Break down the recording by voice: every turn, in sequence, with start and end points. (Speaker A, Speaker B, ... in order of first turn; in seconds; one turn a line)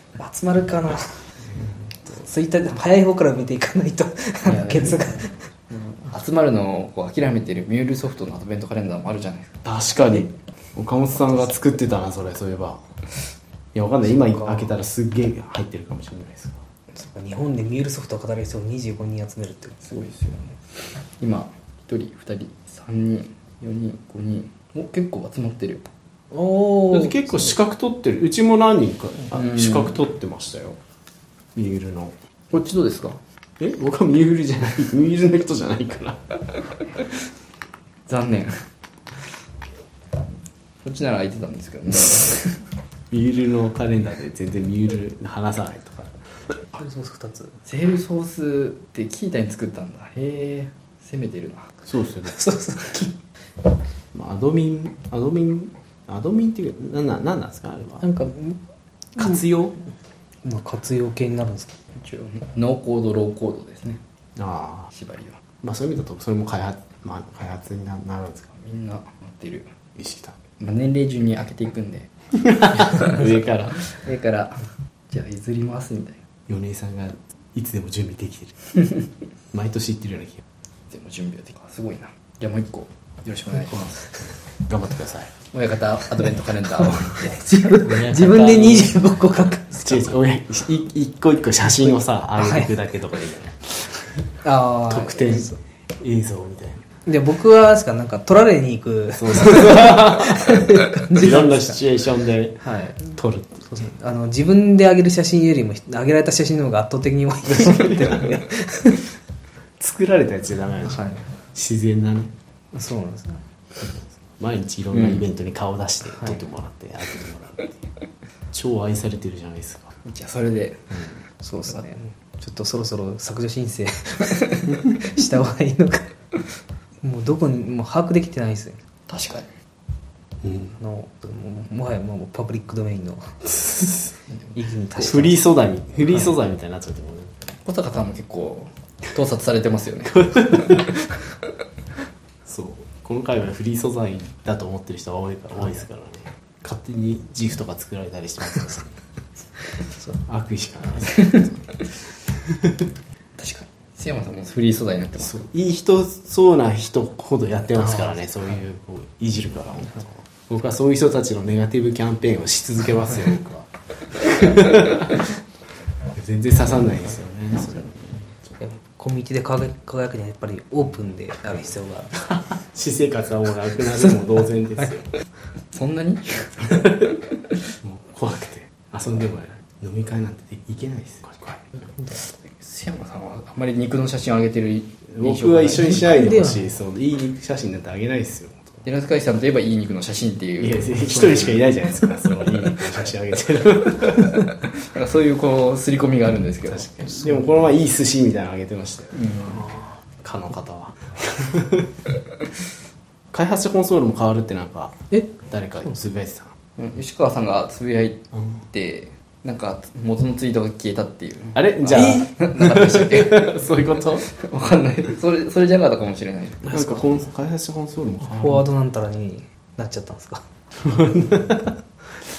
Speaker A: 0.2-1.2
Speaker A: 2.1-5.3
Speaker B: 4.5-5.0
Speaker B: 5.7-9.6
Speaker C: 9.6-12.8
Speaker C: 13.7-16.6
Speaker A: 14.3-14.6
Speaker A: 16.9-19.8
Speaker B: 19.8-20.6
Speaker B: 21.2-25.9
Speaker A: 26.3-27.2
Speaker C: 26.9-30.8
Speaker B: 29.4-29.7
Speaker C: 31.5-32.1
Speaker B: 32.5-33.2
Speaker C: 33.6-36.2
Speaker B: 38.1-38.6
Speaker B: 40.8-42.6
Speaker C: 43.1-46.2
Speaker A: 46.7-47.6
Speaker B: 47.6-51.7
Speaker C: 51.9-52.3
Speaker A: 52.2-53.1
Speaker C: 54.1-58.0
Speaker A: 58.0-58.6
Speaker A: 59.2-59.4
Speaker C: 59.2-59.7
Speaker A: 60.4-61.8
Speaker B: 61.9-64.0
Speaker C: 64.3-64.9
Speaker B: 64.9-65.4
Speaker C: 65.6-68.5
Speaker B: 68.5-69.7
Speaker C: 70.0-70.3
Speaker B: 70.6-72.1
Speaker C: 72.4-73.8
Speaker B: 72.7-73.2
Speaker B: 73.8-74.6
Speaker B: 75.1-76.2
Speaker C: 76.5-78.8
Speaker C: 79.5-80.4
Speaker B: 80.9-84.1
Speaker C: 84.6-85.3
Speaker B: 85.5-87.7
Speaker A: 87.1-90.0
Speaker C: 87.8-88.9
Speaker C: 89.8-94.3
Speaker A: 92.4-92.7
Speaker A: 94.4-95.6
Speaker C: 94.9-96.8
Speaker A: 97.0-101.8
Speaker C: 99.2-103.7
Speaker A: 102.6-103.1
Speaker A: 103.7-109.1
Speaker C: 107.5-108.3
Speaker C: 109.8-112.3
Speaker A: 110.8-111.2
Speaker A: 112.7-113.4
Speaker C: 113.8-117.8
Speaker C: 118.5-119.9
Speaker B: 120.0-120.9
Speaker A: 121.4-126.1
Speaker A: 127.0-128.8
Speaker B: 129.1-129.5
Speaker C: 130.4-130.7
Speaker A: 130.8-133.4
Speaker C: 133.5-134.1
Speaker A: 134.5-135.4
Speaker C: 135.0-137.3
Speaker B: 137.6-141.1
Speaker C: 142.4-148.9
Speaker C: 150.2-151.6
Speaker C: 152.4-152.8
Speaker B: 153.4-155.4
Speaker C: 155.2-165.2
Speaker C: 166.1-168.5
Speaker A: 168.6-172.1
Speaker C: 172.3-175.1
Speaker B: 175.7-176.8
Speaker C: 177.8-181.7
Speaker B: 182.1-186.0
Speaker C: 185.1-188.8
Speaker A: 185.7-186.7
Speaker B: 188.8-191.6
Speaker C: 190.6-194.4
Speaker B: 194.1-197.1
Speaker C: 196.7-202.0
Speaker B: 199.1-199.7
Speaker C: 203.3-206.5
Speaker B: 206.8-217.1
Speaker C: 211.5-214.3
Speaker A: 211.9-212.2
Speaker C: 216.7-218.6
Speaker A: 218.2-220.4
Speaker C: 220.8-221.8